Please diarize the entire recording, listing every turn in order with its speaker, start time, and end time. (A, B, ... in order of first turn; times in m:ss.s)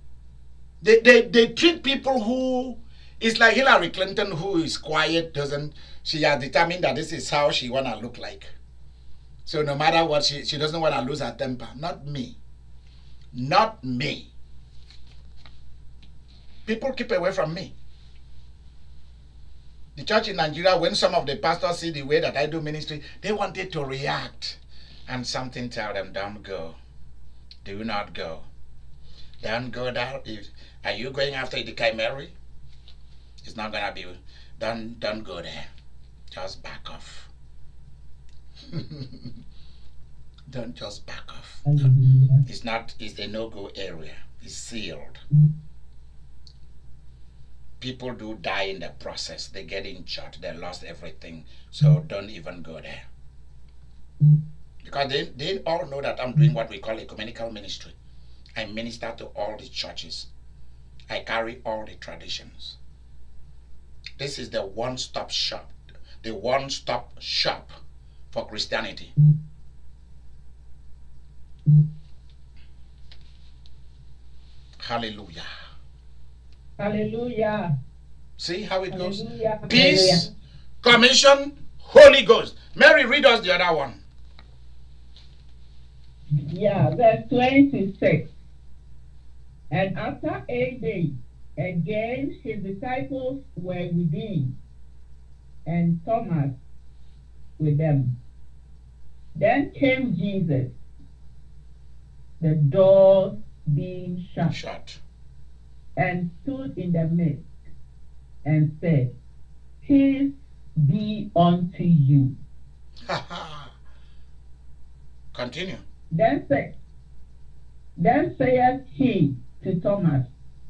0:00.8-0:08.5 A
0:09.4-0:12.4 A
0:13.3-0:14.3 A
0:16.6-0:17.7 A
0:20.0-0:26.8 A
0:27.6-0:28.4 A
0:29.4-0:32.3 A
0:33.4-0:35.7 A
0:36.3-0:37.3 A
0:38.7-0:39.3 A
0:40.5-0:41.9 A
0:41.6-0:42.4 B
0:42.4-0:45.2 A
0:47.8-0:53.0 A
0:54.8-0:57.9 A
0:58.6-1:00.3 A
1:01.1-1:02.8 A
1:04.2-1:07.8 A
1:08.3-1:09.1 A
1:14.8-1:15.5 A
1:16.8-1:17.7 B
1:18.4-1:20.3 A
1:18.9-1:20.3 B
1:20.8-1:24.0 A
1:26.5-1:28.3 B
1:29.7-1:34.5 B
1:35.6-1:36.5 B
1:37.6-1:38.1 B
1:39.4-1:40.7 B
1:42.4-1:44.6 B
1:44.5-1:45.0 A
1:46.0-1:47.4 B
1:48.4-1:49.1 B
1:49.8-1:52.3 B
1:53.1-1:53.7 A
1:55.3-1:55.8 A
1:56.1-1:56.7 B
1:58.0-2:00.3 B